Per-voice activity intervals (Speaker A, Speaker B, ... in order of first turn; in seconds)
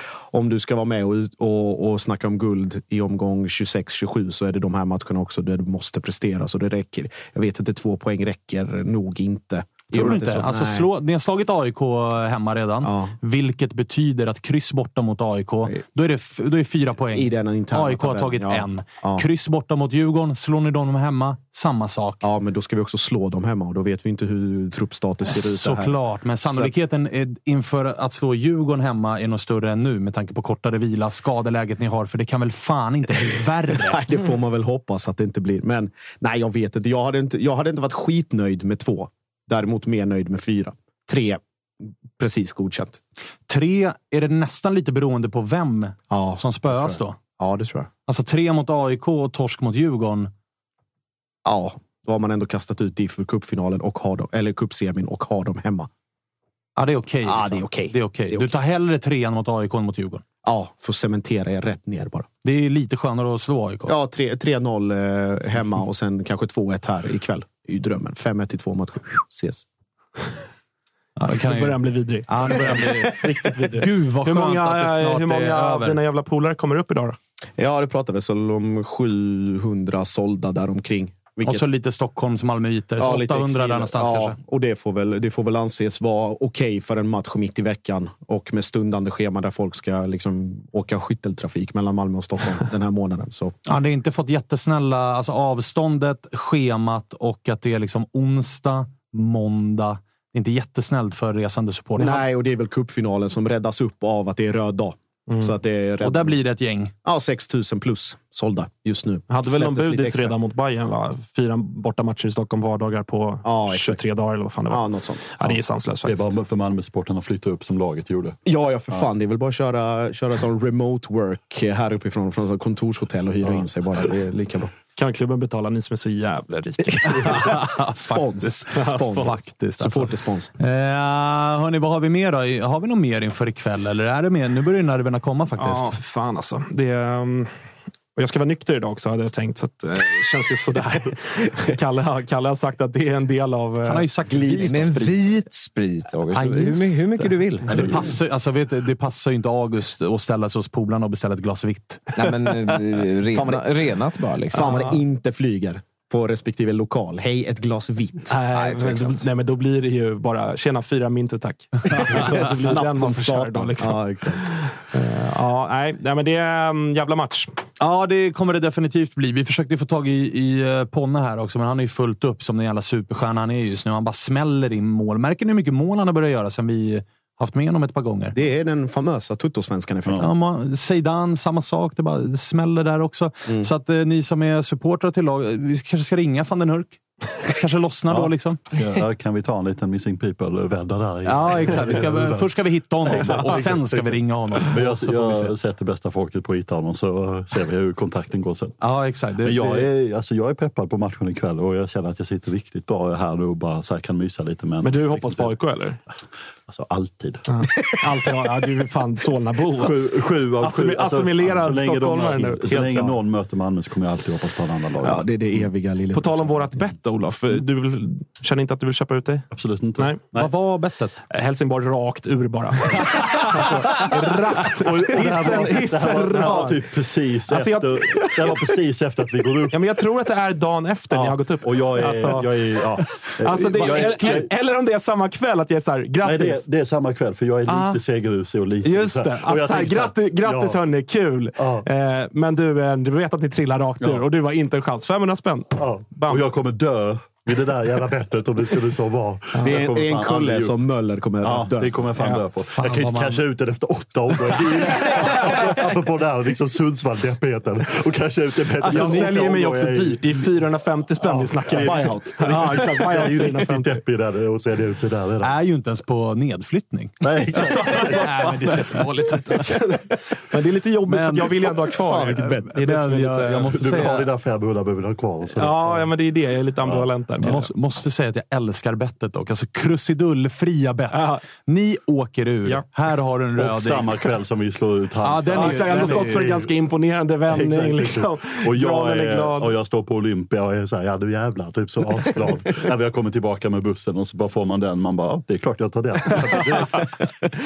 Speaker A: 0.3-10.9, 12.8-13.2, 17.1-19.2, 22.2-26.0, 26.5-26.8, 33.7-43.0, 46.1-47.9, 51.5-55.9, 57.2-58.5, 60.4-62.3, 63.9-69.7, 77.6-81.7, 83.0-93.5, 102.0-106.4, 107.0-110.3, 113.5-114.0, 114.7-115.4, 118.5-124.7, 127.0-130.5, 153.3-153.7, 154.5-158.3, 162.0-164.6, 178.3-180.3, 212.4-213.2, 215.0-216.9, 249.6-252.1, 272.0-273.5
Speaker B: 9.9-22.2, 25.2-34.0, 43.5-47.2, 48.1-50.3, 56.8-60.2, 62.4-63.9, 71.2-76.0, 81.5-84.4, 93.7-102.2, 106.0-106.9, 127.2-136.0, 143.9-145.2, 146.5-152.2, 167.8-178.4, 180.2-188.6, 191.3-195.6, 198.8-199.9, 220.3-221.2, 224.1-226.7, 237.7-238.0, 252.2-253.4, 258.8-259.6, 265.4-269.0, 271.1-271.6, 272.4-274.3, 277.4-284.2, 285.2-286.5
Speaker C: 71.3-77.2, 105.3-105.6, 109.3-116.3, 125.0-127.5, 128.8-129.3, 135.6-137.5, 138.2-144.7, 158.3-167.5, 204.8-206.0, 207.5-213.1, 216.1-220.2, 221.3-226.7, 227.5-228.7, 229.7-236.7, 238.8-246.4, 249.5-249.8, 258.8-263.9, 267.6-273.6, 275.5-277.6, 281.1-281.4, 285.5-289.8, 296.7-297.1
Speaker D: 116.0-118.4, 188.1-192.5, 193.0-198.8, 199.4-205.8, 206.7-207.4, 209.8-215.7, 219.5-220.5, 223.5-229.8, 231.1-234.5, 236.2-240.8, 241.6-241.8, 244.0-244.2, 245.8-250.8, 251.4-260.2, 261.2-265.5, 267.2-268.3, 273.7-276.1, 276.8-277.6, 283.6-286.8, 287.5-297.2
Speaker E: 144.5-148.1, 152.2-154.8, 158.5-159.2